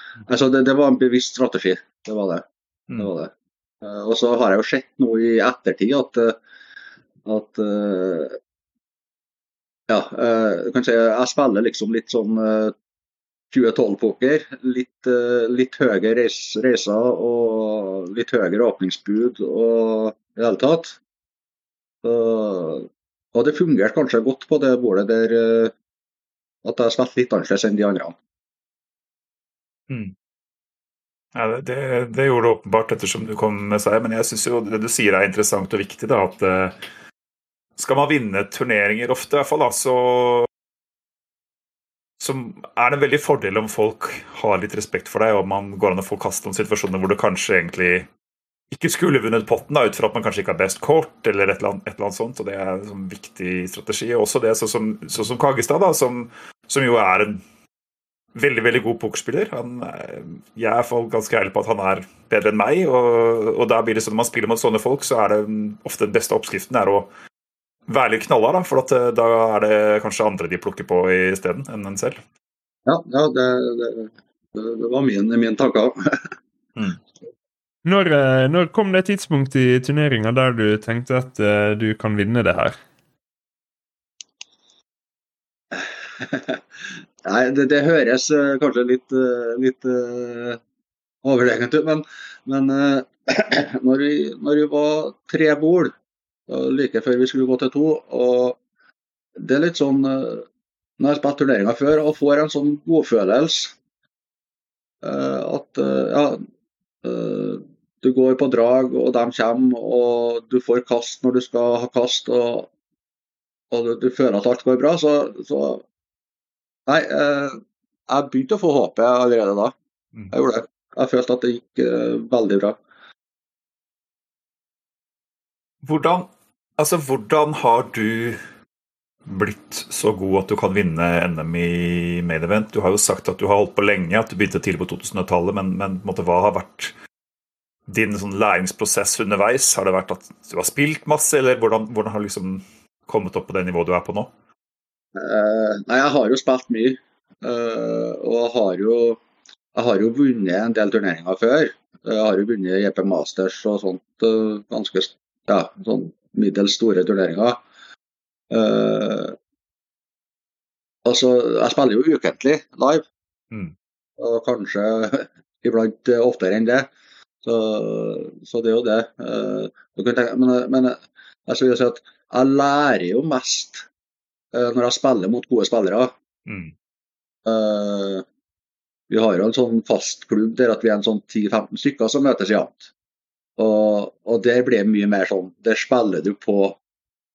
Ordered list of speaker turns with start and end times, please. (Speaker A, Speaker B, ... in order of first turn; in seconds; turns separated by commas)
Speaker A: 0.2-3.3, Speaker A: 3.8-6.3, Speaker A: 7.2-8.4, Speaker A: 9.9-12.7, Speaker A: 13.5-21.0, Speaker A: 22.0-25.7, Speaker A: 26.6-28.1, Speaker B: 31.3-36.8, Speaker B: 37.8-40.5, Speaker B: 42.2-48.1, Speaker B: 48.7-57.4, Speaker B: 58.3-67.1, Speaker B: 67.9-72.2, Speaker A: 72.8-76.2, Speaker C: 77.8-82.7, Speaker A: 85.7-86.6, Speaker A: 87.2-90.6, Speaker A: 91.2-95.9, Speaker A: 96.5-98.6, Speaker A: 99.4-100.4, Speaker A: 101.0-103.7, Speaker A: 105.0-106.4, Speaker A: 107.0-112.7, Speaker A: 113.7-115.8, Speaker A: 116.9-119.7, Speaker A: 120.3-122.8, Speaker B: 125.8-128.4, Speaker B: 129.2-136.9, Speaker B: 137.9-144.3, Speaker A: 145.1-149.2, Speaker A: 149.7-157.6, Speaker A: 158.5-159.3, Speaker A: 161.0-163.0, Speaker A: 164.2-166.9, Speaker A: 167.4-173.8, Speaker A: 174.5-176.1, Speaker B: 176.4-176.7, Speaker A: 177.4-178.2, Speaker A: 179.1-182.9, Speaker A: 183.6-186.8